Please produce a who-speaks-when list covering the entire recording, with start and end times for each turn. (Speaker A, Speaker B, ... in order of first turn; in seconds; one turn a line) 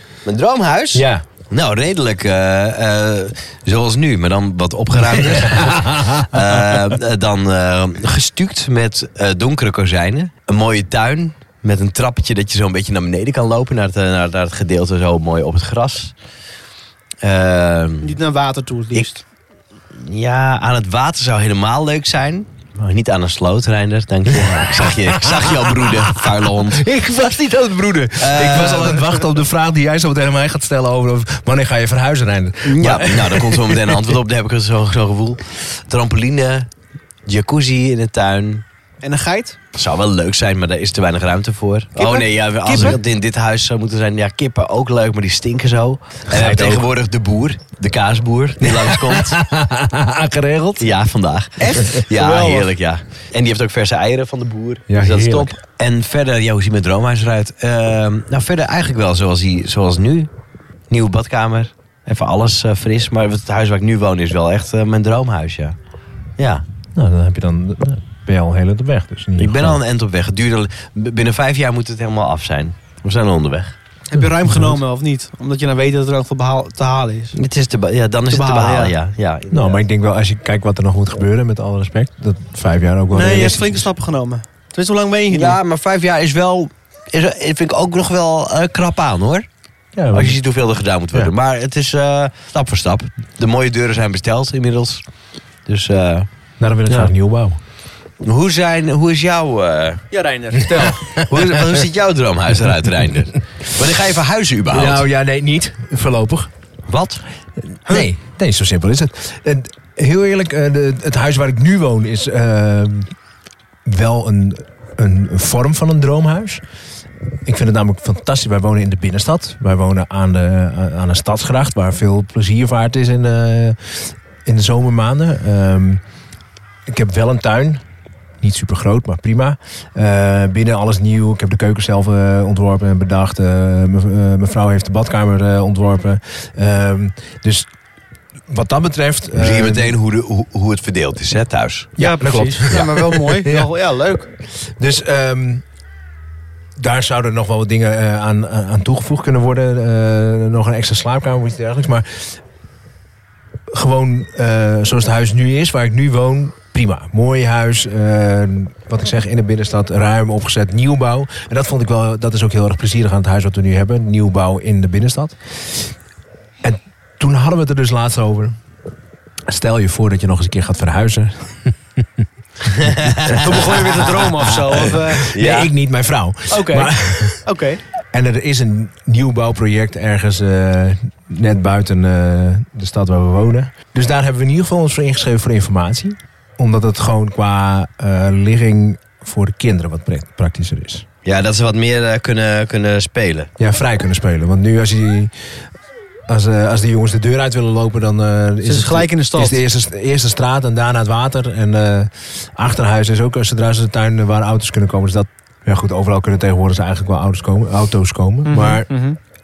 Speaker A: 0.2-16.1
Speaker B: 0.9-1.2
Speaker B: 5.0-6.7
Speaker A: 17.2-18.2
Speaker C: 18.0-19.2
Speaker A: 19.9-26.8
Speaker B: 24.3-34.2
Speaker A: 28.2-29.1
Speaker A: 32.6-36.7
Speaker A: 37.3-38.6
Speaker C: 39.0-39.6
Speaker A: 39.7-49.4
Speaker C: 42.0-43.0
Speaker B: 42.7-43.0
Speaker B: 46.3-46.9
Speaker B: 48.6-50.9
Speaker A: 50.8-60.3
Speaker C: 51.6-52.7
Speaker B: 54.9-55.6
Speaker A: 60.9-65.8
Speaker A: 66.4-66.6
Speaker B: 67.0-69.8
Speaker A: 69.4-73.8
Speaker C: 74.1-77.4
Speaker B: 74.2-74.8
Speaker A: 77.4-79.8
Speaker C: 78.3-79.0
Speaker B: 79.5-83.9
Speaker C: 83.1-85.6
Speaker A: 85.3-89.5
Speaker B: 90.0-90.4
Speaker A: 90.1-95.0
Speaker A: 95.7-96.3
Speaker B: 96.6-97.6
Speaker A: 98.2-100.0
Speaker C: 100.1-101.0
Speaker B: 100.7-101.8
Speaker A: 100.9-105.0
Speaker B: 104.7-106.5
Speaker A: 106.9-107.2
Speaker B: 107.9-113.1
Speaker B: 113.8-116.6
Speaker B: 117.5-123.9
Speaker B: 124.5-126.0
Speaker B: 126.9-127.8
Speaker B: 128.4-137.7
Speaker B: 138.5-139.9
Speaker A: 139.4-141.9
Speaker B: 142.0-143.7
Speaker C: 142.0-144.3
Speaker B: 144.8-145.6
Speaker B: 146.8-152.3
Speaker B: 153.7-165.4
Speaker B: 166.6-168.6
Speaker B: 169.5-172.0
Speaker B: 172.7-174.2
Speaker A: 172.7-173.6
Speaker C: 173.4-175.4
Speaker B: 174.8-177.4
Speaker A: 175.2-175.7
Speaker C: 176.5-176.9
Speaker C: 177.4-177.8
Speaker B: 178.1-191.1
Speaker A: 191.2-193.5
Speaker B: 193.6-195.3
Speaker B: 196.3-208.9
Speaker C: 198.6-199.6
Speaker C: 208.4-209.2